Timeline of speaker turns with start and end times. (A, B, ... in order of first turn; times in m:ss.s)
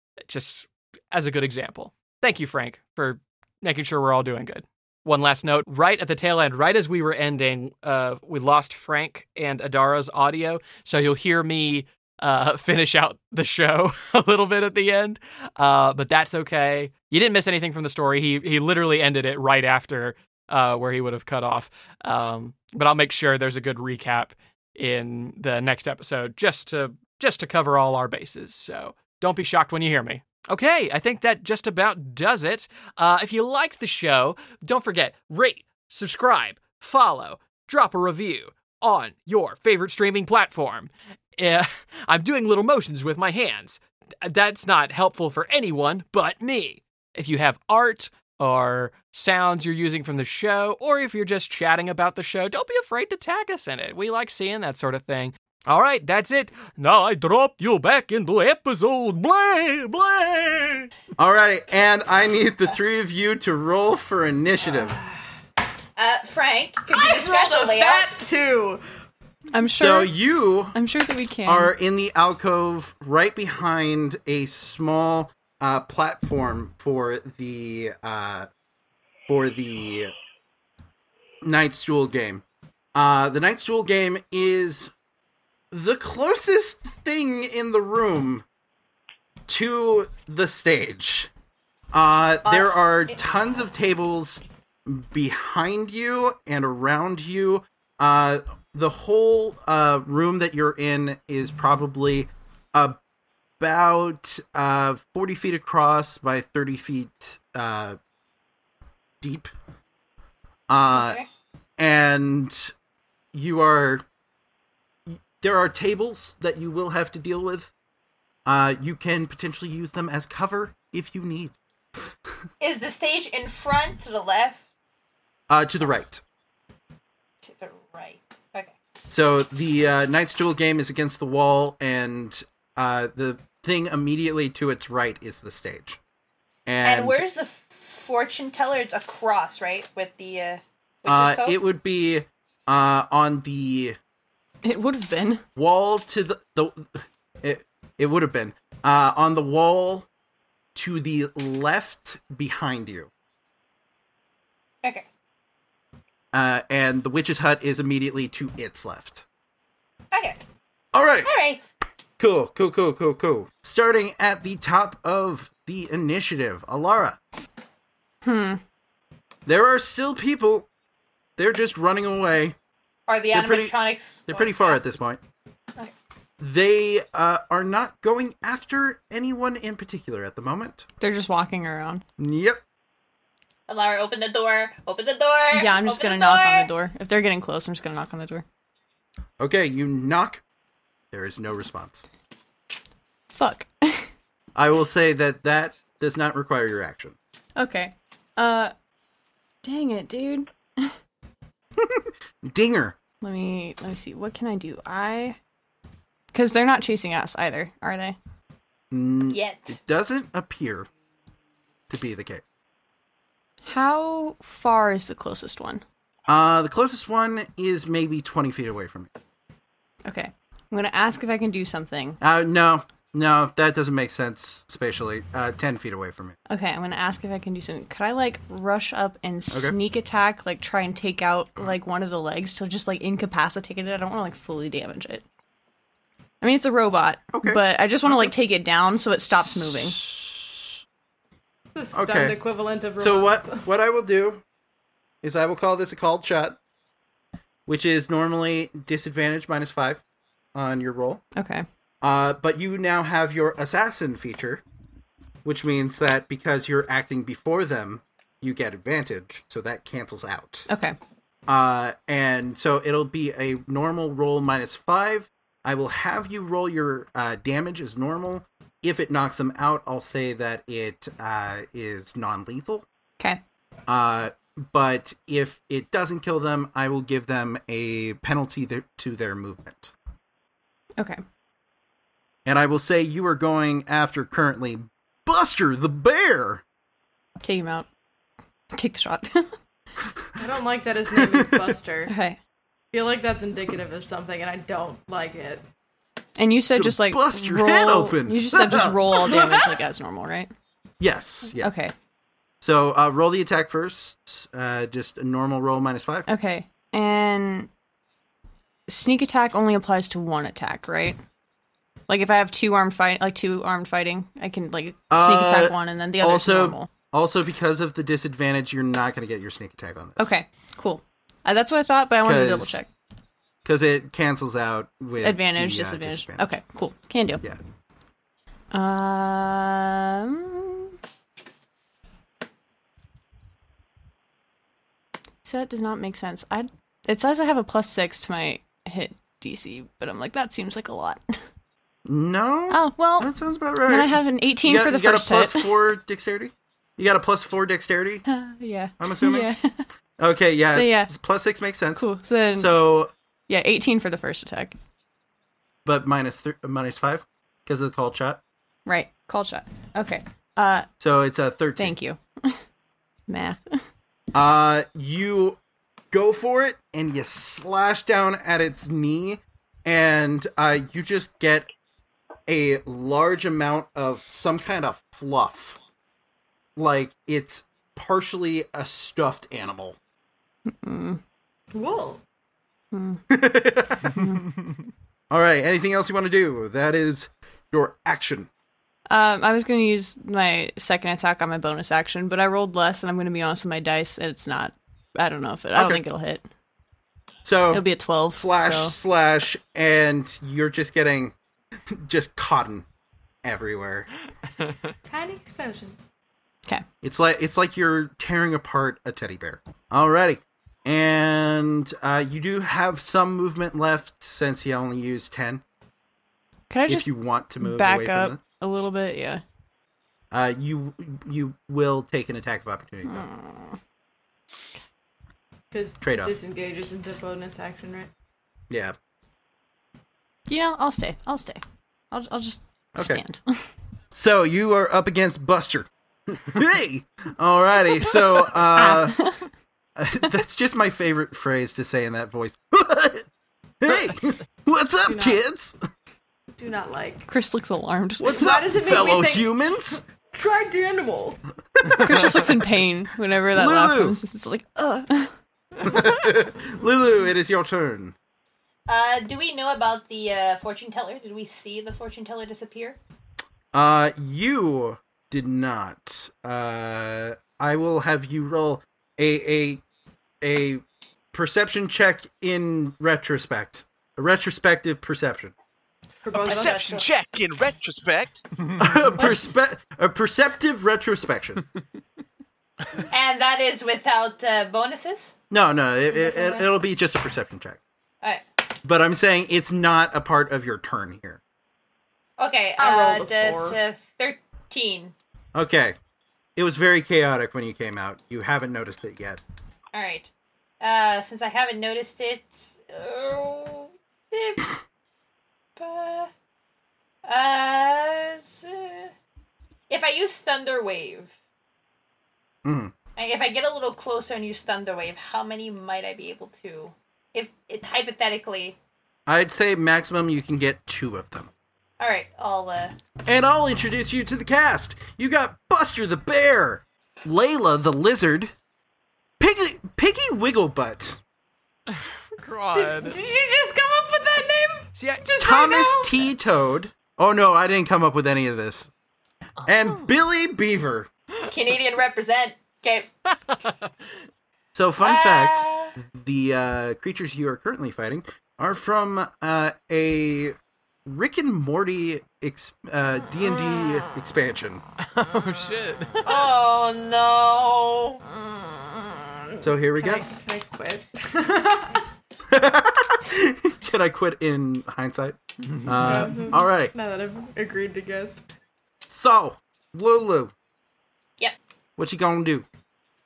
0:00.3-1:00.9 A
1:01.2-1:05.0 B
1:06.0-1:08.2 C
1:06.9-1:08.8 D
1:09.5-1:10.1 E
1:09.7-1:10.8 B
1:10.7-1:11.7 E
1:11.4-1:18.5 B
1:19.3-1:20.1 B
1:21.4-1:22.4 B
1:23.0-1:24.9 B
1:25.7-1:28.4 B
1:29.5-1:31.3 B
1:31.9-1:43.0 B
1:43.6-1:48.0 B
1:49.2-1:49.5 B
1:50.7-1:51.2 B
1:50.9-1:51.3 C
1:51.8-1:52.7 B
1:53.3-1:54.0 B
1:55.1-1:57.7 B
1:58.5-2:01.6 B
2:02.6-2:04.6 C
2:05.5-2:06.2 B
2:07.4-2:08.7 C
2:09.1-2:16.0 B
2:16.7-2:17.2 B
2:16.8-2:21.6 C
2:21.1-2:24.0 B
2:24.6-2:25.4 E
2:25.6-2:30.1 B
2:30.8-2:33.1 B
2:36.3-2:39.2 B
2:40.1-2:40.4 C
2:40.9-2:41.3 B
2:41.2-2:41.6 C
2:42.2-2:47.2 B
2:48.2-2:48.6 E
2:49.5-2:50.7 B
2:51.4-2:52.6 B
2:53.1-2:54.8 C
2:53.3-2:55.2 B
2:56.4-3:00.9 B
3:01.0-3:02.0 E
3:02.2-3:02.6 B
3:03.7-3:06.7 C
3:05.5-3:08.4 E
3:09.4-3:10.4 B
3:11.1-3:12.0 B
3:13.3-3:14.1 E
3:14.6-3:17.2 B
3:17.6-3:18.7 E
3:19.6-3:21.0 E
3:21.8-3:23.0 B
3:23.2-3:25.4 E
3:26.3-3:28.2 E
3:28.9-3:30.9 B
3:29.3-3:29.8 C
3:31.9-3:32.4 B
3:33.6-3:35.8 E
3:36.3-3:39.1 B
3:40.1-3:42.2 E
3:42.2-3:46.4 B
3:46.5-3:55.2 E
3:49.5-3:49.8 B
3:56.4-4:00.0 E
3:57.3-3:58.3 B
3:59.4-4:00.8 B
4:01.8-4:03.6 D
4:01.9-4:02.4 B
4:03.0-4:04.4 B
4:05.2-4:06.6 B
4:07.7-4:10.0 B
4:10.6-4:11.2 B
4:11.4-4:11.6 E
4:12.0-4:14.6 B
4:15.4-4:20.7 B
4:20.7-4:21.0 E
4:21.5-4:32.9 B
4:33.9-4:39.9 B
4:42.5-4:46.6 B
4:47.4-4:47.9 E
4:48.7-4:49.5 E
4:50.4-4:52.1 D
4:51.2-4:51.7 B
4:52.1-4:52.4 E
4:52.9-4:55.6 D
4:56.4-5:00.5 E
4:56.8-4:59.6 B
5:01.0-5:01.7 B
5:01.6-5:01.9 E
5:02.6-5:06.3 B
5:06.3-5:07.7 E
5:08.9-5:11.2 E
5:12.1-5:16.9 E
5:15.1-5:20.3 B
5:20.2-5:22.9 E
5:22.2-5:22.8 B
5:23.6-5:26.6 B
5:25.2-5:27.4 E
5:28.7-5:31.0 E
5:35.4-5:41.2 E
5:42.1-5:48.2 B
5:42.7-5:43.3 E
5:43.8-5:45.7 E
5:48.3-5:49.8 E
5:49.0-5:49.5 B
5:50.2-5:52.0 B
5:50.7-5:51.1 E
5:52.0-5:52.8 E
5:52.6-5:53.1 B
5:53.5-5:54.8 E
5:55.8-5:58.4 B
5:58.9-6:00.9 E
6:01.0-6:02.0 B
6:01.8-6:02.6 E
6:03.3-6:03.8 E
6:04.3-6:05.6 B
6:06.1-6:11.7 B
6:12.5-6:15.8 B
6:16.8-6:20.0 B
6:20.7-6:21.2 E
6:21.7-6:22.2 D
6:22.9-6:23.2 E
6:23.3-6:24.3 B
6:24.0-6:24.4 E
6:25.3-6:28.5 B
6:29.1-6:36.4 E
6:35.8-6:36.0 B
6:37.4-6:41.4 B
6:37.7-6:39.0 E
6:41.9-6:42.9 B
6:43.4-6:44.1 B
6:45.0-6:46.0 D
6:47.0-6:55.6 B
6:56.7-6:59.4 E
6:56.9-6:58.4 B
7:00.3-7:03.3 B
7:03.0-7:03.8 E
7:05.7-7:08.1 D
7:06.0-7:06.4 B
7:08.7-7:09.0 B
7:10.5-7:13.7 E
7:13.0-7:13.2 B
7:14.1-7:19.2 B
7:18.8-7:19.4 E
7:20.0-7:23.3 B
7:23.8-7:25.8 B
7:25.1-7:25.4 D
7:26.6-7:27.3 D
7:27.3-7:28.4 E
7:28.2-7:30.0 B
7:28.3-7:29.5 D
7:30.3-7:31.4 D
7:31.8-7:32.4 B
7:32.0-7:35.3 E
7:33.5-7:34.2 B
7:35.8-7:38.2 B
7:38.9-7:43.0 C
7:43.7-7:49.8 B
7:50.4-7:55.5 B
7:56.2-7:57.1 D
7:56.3-7:58.4 F
7:56.5-7:56.9 C
7:58.8-8:01.6 B
8:03.1-8:05.3 C
8:05.5-8:07.8 B
8:06.1-8:06.7 D
8:08.8-8:11.4 B
8:12.4-8:15.1 C
8:12.8-8:13.8 D
8:15.6-8:16.0 B
8:16.6-8:19.4 B
8:19.9-8:20.3 C
8:20.8-8:24.8 C
8:25.8-8:26.3 C
8:27.3-8:29.1 C
8:29.9-8:31.3 C
8:32.6-8:32.9 B
8:33.2-8:38.8 C
8:39.3-8:41.5 B
8:42.0-8:42.9 C
8:43.3-8:48.5 B
8:49.4-8:51.2 B
8:52.4-8:53.2 A
8:52.7-8:56.3 D
8:55.0-8:55.3 A
8:55.4-8:58.9 B
8:59.6-9:01.1 B
9:01.5-9:03.1 C
9:04.7-9:14.8 B
9:05.0-9:06.0 C
9:15.1-9:16.4 A
9:16.2-9:18.3 C
9:19.6-9:20.2 B
9:19.9-9:22.1 D
9:22.5-9:26.9 B
9:25.7-9:26.3 A
9:26.0-9:28.4 D
9:29.1-9:30.5 B
9:32.0-9:32.7 B